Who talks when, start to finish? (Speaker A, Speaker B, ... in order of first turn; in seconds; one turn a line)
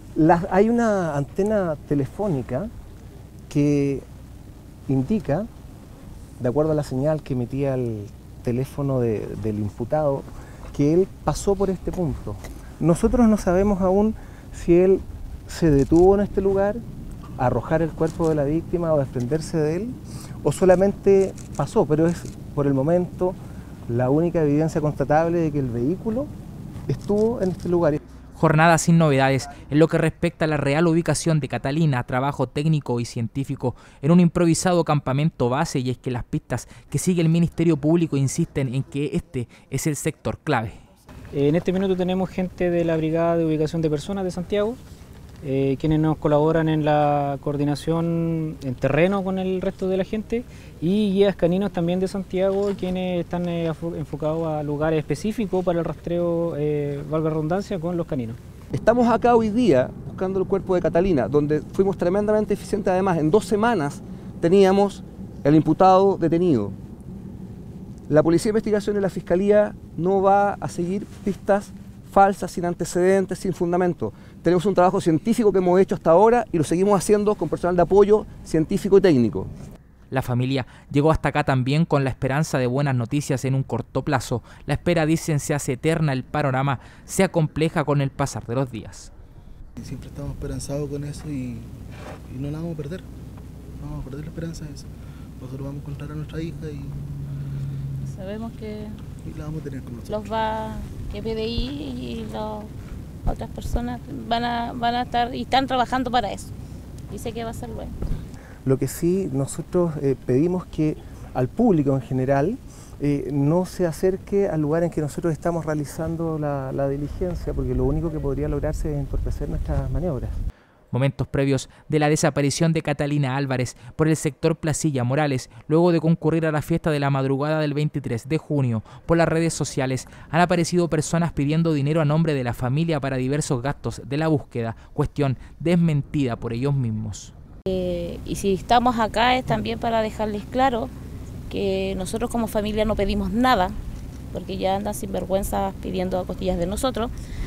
Speaker A: 0.2-2.7
Speaker A: 3.5-4.0
Speaker A: 4.9-5.5
Speaker A: 6.4-16.8
Speaker A: 17.4-26.3
Speaker A: 26.9-28.0
Speaker B: 28.4-40.8
Speaker C: 41.3-44.8
Speaker C: 45.4-58.4
Speaker D: 58.7-66.8
Speaker D: 68.1-79.5
Speaker B: 80.1-89.1
Speaker E: 89.8-91.7
Speaker E: 92.3-93.0
Speaker E: 93.8-94.9
Speaker E: 95.4-97.0
Speaker F: 98.1-99.0
Speaker E: 99.3-100.1
Speaker F: 100.1-102.7
Speaker F: 103.3-106.5
Speaker F: 107.1-107.9
Speaker A: 108.6-120.4
Speaker B: 120.9-137.3
Speaker F: 137.7-140.9
Speaker F: 141.5-143.8
Speaker F: 144.3-147.1